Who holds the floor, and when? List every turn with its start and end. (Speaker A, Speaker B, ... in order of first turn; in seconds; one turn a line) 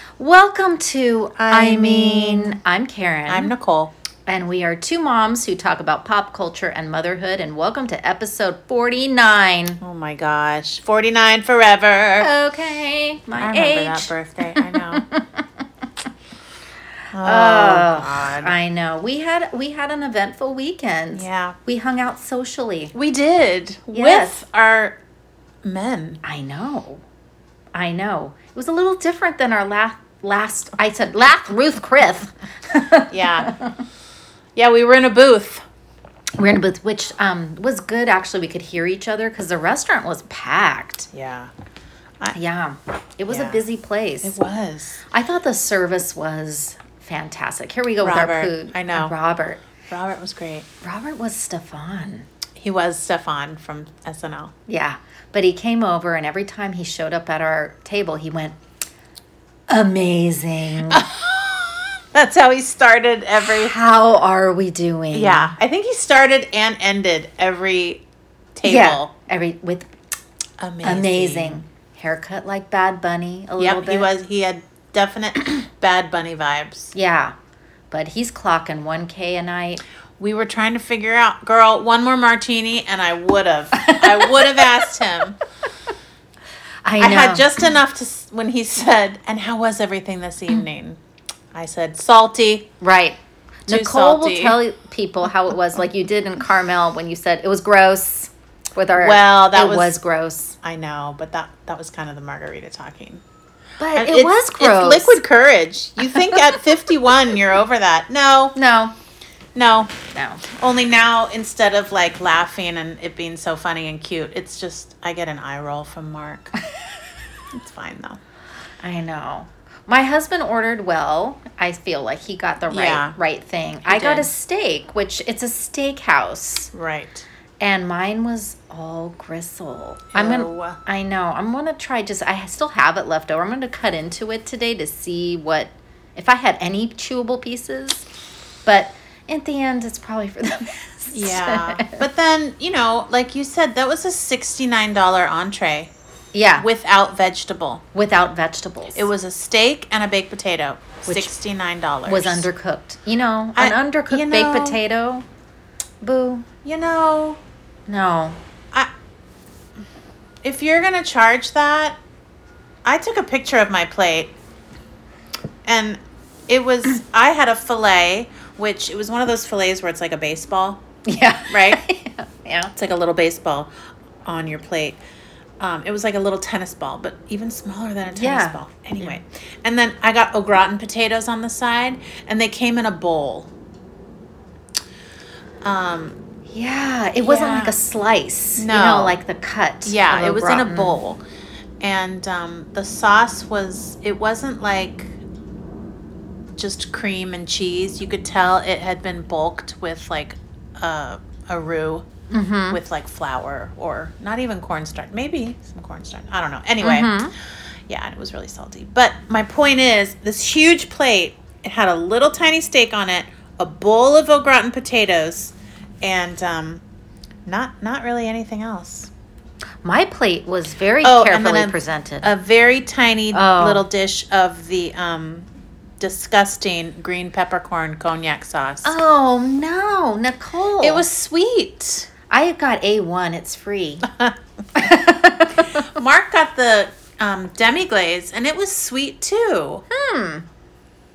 Speaker A: 0.2-3.5
Speaker B: 1.4-2.6
Speaker B: 3.3-3.9
Speaker A: 4.3-9.8
Speaker B: 9.8-12.3
Speaker A: 12.2-15.6
Speaker B: 13.4-15.1
Speaker B: 17.1-18.6
Speaker A: 17.2-22.9
Speaker B: 21.1-21.6
Speaker B: 22.9-25.0
Speaker A: 23.9-24.4
Speaker B: 25.6-26.2
Speaker A: 26.2-27.0
Speaker A: 27.7-33.8
Speaker B: 33.1-33.5
Speaker B: 34.5-35.6
Speaker A: 36.4-41.1
Speaker B: 41.1-41.5
Speaker A: 42.3-44.4
Speaker B: 43.3-43.6
Speaker B: 44.2-45.0
Speaker A: 45.1-49.6
Speaker B: 48.0-49.1
Speaker B: 49.9-50.7
Speaker A: 50.8-52.3
Speaker B: 52.5-54.5
Speaker A: 54.7-58.6
Speaker A: 59.7-61.0
Speaker B: 60.9-63.7
Speaker A: 63.4-65.5
Speaker B: 65.1-69.1
Speaker A: 68.6-69.9
Speaker B: 70.6-71.6
Speaker A: 70.8-74.1
Speaker B: 73.6-76.9
Speaker A: 76.9-77.3
Speaker A: 77.9-79.8
Speaker B: 80.2-85.4
Speaker A: 83.7-84.8
Speaker A: 86.8-87.7
Speaker B: 87.0-91.0
Speaker B: 91.5-92.7
Speaker A: 92.8-100.6
Speaker B: 93.7-94.6
Speaker B: 99.0-99.9
Speaker B: 100.6-103.2
Speaker A: 103.8-105.2
Speaker B: 103.9-108.5
Speaker A: 106.1-106.6
Speaker A: 108.5-108.9
Speaker B: 109.5-109.9
Speaker A: 110.1-110.5
Speaker B: 110.5-116.5
Speaker B: 117.5-118.2
Speaker A: 118.8-126.7
Speaker B: 122.7-123.2
Speaker B: 123.8-124.3
Speaker B: 126.7-127.2
Speaker A: 127.6-138.1
Speaker B: 130.1-130.8
Speaker A: 138.7-142.0
Speaker B: 141.1-145.9
Speaker A: 146.3-146.7
Speaker B: 146.6-147.8
Speaker A: 147.9-149.1
Speaker B: 148.9-152.5
Speaker A: 151.1-151.3
Speaker A: 152.1-155.2
Speaker B: 153.5-154.8
Speaker A: 156.0-156.5
Speaker B: 156.6-157.4
Speaker A: 157.9-158.4
Speaker B: 160.4-162.0
Speaker B: 162.8-164.3
Speaker B: 165.6-170.8
Speaker A: 171.0-172.7
Speaker B: 171.5-171.8
Speaker B: 172.7-173.7
Speaker B: 174.2-175.0
Speaker B: 175.6-183.5
Speaker A: 178.1-179.1
Speaker B: 185.6-186.2
Speaker A: 186.5-191.0
Speaker B: 187.2-187.8
Speaker B: 188.6-189.2
Speaker B: 189.8-191.2
Speaker B: 191.8-195.2
Speaker B: 196.6-202.1
Speaker A: 202.3-202.8
Speaker B: 202.7-216.8
Speaker A: 206.8-207.3
Speaker B: 217.4-219.1
Speaker A: 219.8-222.3
Speaker B: 221.0-225.5
Speaker A: 223.3-223.8
Speaker B: 226.0-229.0
Speaker A: 228.8-231.0
Speaker B: 230.8-232.1
Speaker A: 232.3-234.1
Speaker B: 234.1-234.3
Speaker A: 234.7-235.9
Speaker B: 235.7-239.8
Speaker A: 239.9-240.5